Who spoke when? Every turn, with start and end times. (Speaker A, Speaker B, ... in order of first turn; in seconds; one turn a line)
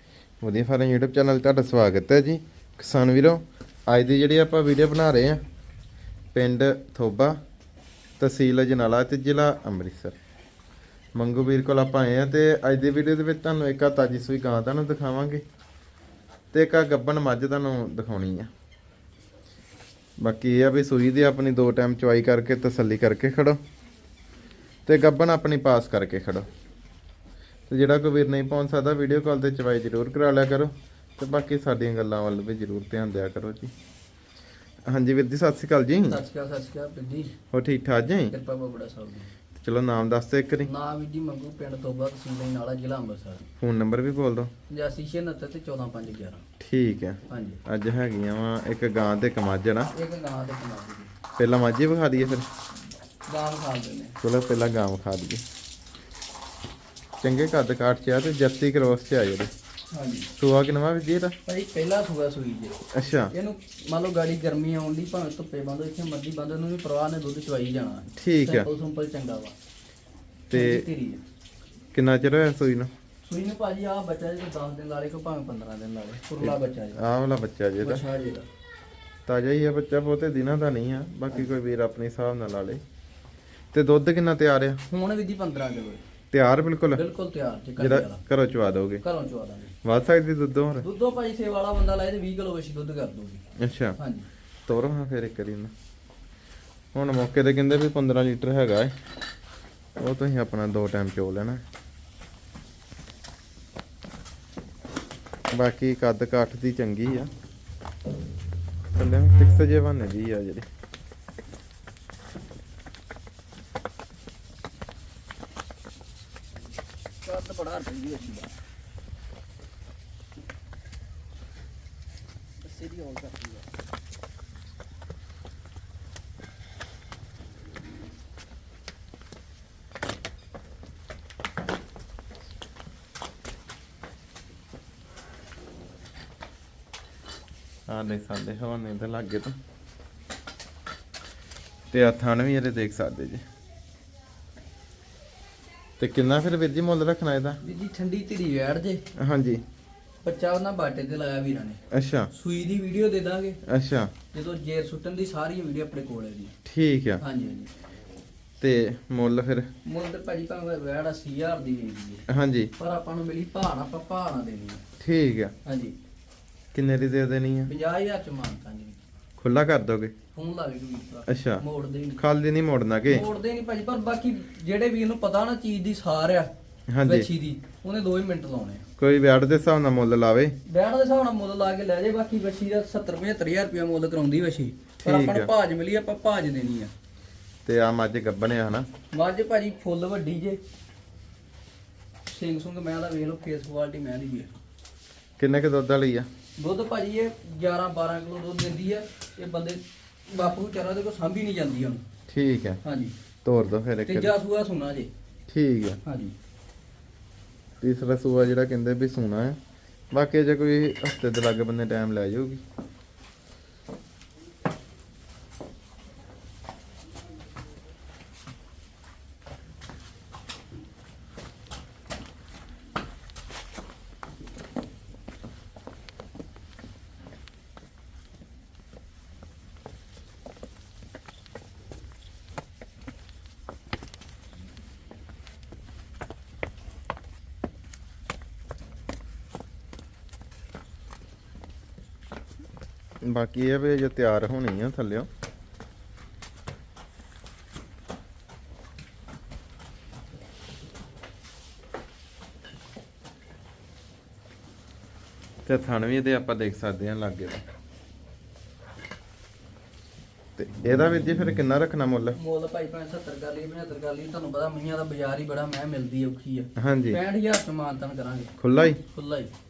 Speaker A: 0.4-5.4
Speaker A: 6.3-7.4
Speaker A: 8.2-10.2
Speaker A: 11.1-15.4
Speaker A: 16.5-18.5
Speaker A: 20.2-23.6
Speaker A: 24.9-26.4
Speaker A: 27.7-33.7
Speaker A: 34.9-36.2
Speaker B: 36.0-37.4
Speaker A: 37.5-38.3
Speaker B: 38.3-39.3
Speaker A: 39.5-40.7
Speaker B: 40.6-43.5
Speaker A: 43.6-44.5
Speaker B: 44.7-46.4
Speaker A: 46.6-49.9
Speaker B: 47.3-47.6
Speaker B: 49.9-51.1
Speaker A: 51.4-52.5
Speaker B: 53.3-54.2
Speaker A: 54.2-55.4
Speaker A: 57.2-59.5
Speaker B: 59.9-60.3
Speaker A: 60.4-61.4
Speaker B: 61.5-62.8
Speaker A: 62.9-63.3
Speaker B: 63.3-69.5
Speaker A: 68.2-68.7
Speaker A: 70.5-70.8
Speaker B: 70.5-71.2
Speaker A: 71.9-72.9
Speaker B: 73.2-77.0
Speaker A: 76.4-78.0
Speaker B: 77.8-78.5
Speaker A: 79.2-82.8
Speaker A: 83.7-84.8
Speaker B: 84.9-86.0
Speaker A: 86.3-87.0
Speaker B: 86.9-88.2
Speaker A: 87.8-89.0
Speaker B: 89.0-89.7
Speaker A: 89.8-90.9
Speaker B: 90.8-93.5
Speaker A: 93.6-94.0
Speaker B: 94.0-94.3
Speaker A: 94.7-95.7
Speaker A: 96.9-99.0
Speaker A: 100.0-101.6
Speaker A: 105.5-107.3
Speaker A: 108.9-110.7
Speaker B: 117.2-118.6
Speaker B: 122.6-123.7
Speaker A: 137.9-139.6
Speaker A: 141.9-143.4
Speaker A: 146.0-147.6
Speaker B: 147.6-149.0
Speaker A: 149.2-149.6
Speaker B: 150.2-151.8
Speaker A: 151.9-152.3
Speaker B: 152.3-153.6
Speaker A: 153.6-154.1
Speaker B: 154.3-156.5
Speaker A: 156.6-157.2
Speaker B: 157.2-157.7
Speaker A: 158.6-159.7
Speaker B: 159.8-162.2
Speaker A: 162.3-162.7
Speaker B: 162.8-164.8
Speaker A: 165.0-165.5
Speaker B: 165.6-165.9
Speaker A: 166.7-167.7
Speaker B: 167.7-169.0
Speaker A: 169.4-170.1
Speaker B: 170.3-172.2
Speaker A: 171.3-171.6
Speaker A: 172.2-173.2
Speaker B: 173.1-176.5
Speaker A: 176.9-177.3
Speaker B: 177.0-178.8
Speaker A: 179.0-180.6
Speaker B: 180.7-186.9
Speaker A: 185.0-185.5
Speaker A: 187.6-188.9
Speaker B: 189.1-190.6
Speaker B: 192.3-194.5
Speaker A: 195.4-196.3
Speaker B: 196.6-202.0
Speaker A: 202.3-202.8
Speaker B: 202.8-203.1
Speaker A: 203.4-204.3
Speaker B: 204.1-205.1
Speaker A: 205.5-206.0
Speaker B: 206.0-206.3
Speaker A: 207.8-209.6
Speaker A: 210.1-212.6
Speaker A: 243.2-245.3
Speaker A: 255.7-257.6
Speaker A: 260.6-262.4
Speaker B: 262.3-269.5
Speaker A: 266.8-267.2
Speaker A: 268.6-269.0